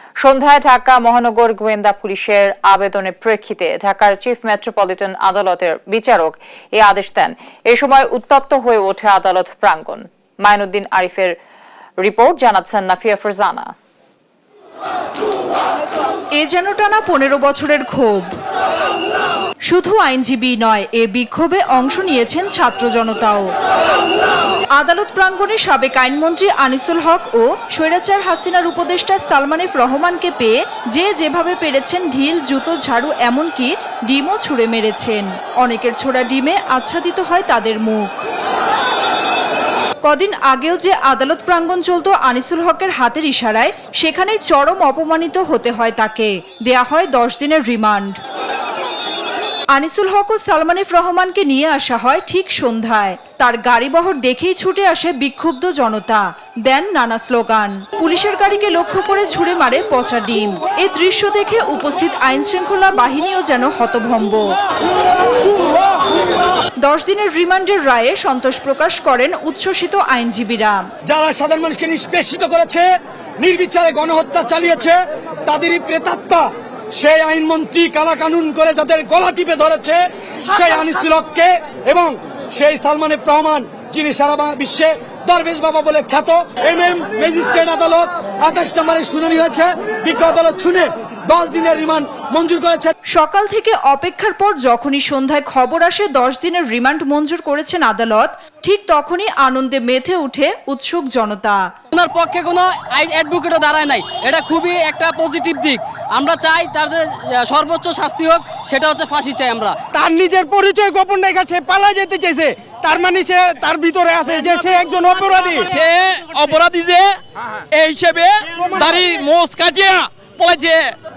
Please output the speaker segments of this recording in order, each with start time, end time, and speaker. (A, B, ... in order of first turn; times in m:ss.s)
0:00.2-0:11.4 A
0:12.0-0:13.7 A
0:16.4-0:18.3 B
0:19.7-0:23.5 B
0:24.8-0:38.2 B
0:40.0-0:48.2 B
0:49.7-1:04.5 B
1:06.8-1:10.8 B
1:11.1-1:12.9 C
1:13.4-1:32.9 C
1:33.1-1:41.7 B
1:41.9-1:49.7 D
1:49.9-1:55.7 E
1:55.7-1:57.2 F
1:57.7-2:01.0 F
1:58.6-1:59.0 E